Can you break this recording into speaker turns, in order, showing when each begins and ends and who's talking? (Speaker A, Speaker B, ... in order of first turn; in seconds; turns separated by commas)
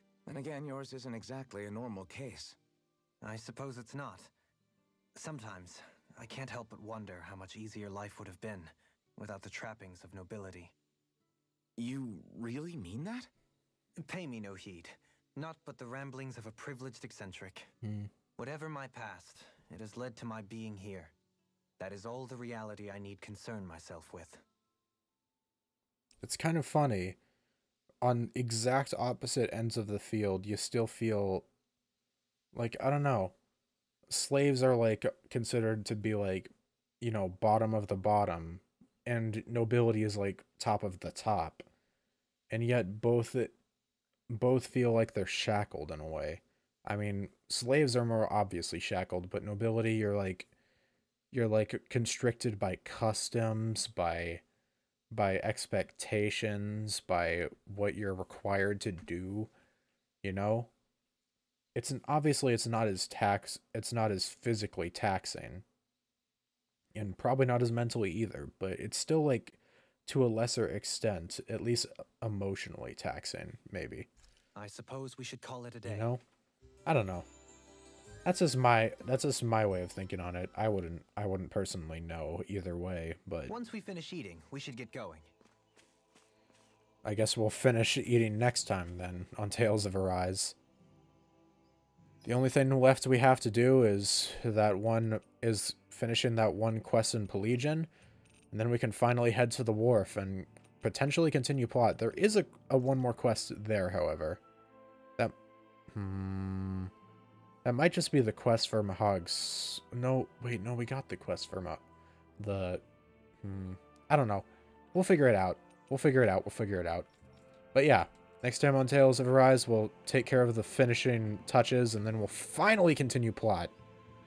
Speaker A: 0.2-2.6, Speaker B: 3.2-4.3, Speaker B: 5.1-10.7, Speaker A: 11.8-13.3, Speaker B: 14.0-17.7, Speaker C: 17.8-18.1, Speaker B: 18.4-21.1, Speaker B: 21.8-24.4, Speaker C: 26.2-27.2, Speaker C: 28.0-31.5, Speaker C: 32.5-33.3, Speaker C: 34.1-41.6, Speaker C: 42.5-43.5, Speaker C: 44.3-50.5, Speaker C: 51.3-54.4, Speaker C: 55.1-59.5, Speaker C: 60.2-60.7, Speaker C: 61.7-65.6, Speaker C: 66.9-74.1, Speaker B: 74.5-76.1, Speaker C: 75.8-76.2, Speaker C: 76.8-77.3, Speaker C: 78.2-83.5, Speaker B: 83.5-85.3, Speaker C: 87.0-90.5, Speaker C: 92.2-97.9, Speaker C: 98.5-104.4, Speaker C: 105.9-106.9, Speaker C: 107.6-111.8, Speaker C: 112.4-112.8, Speaker C: 113.4-117.1, Speaker C: 117.7-123.7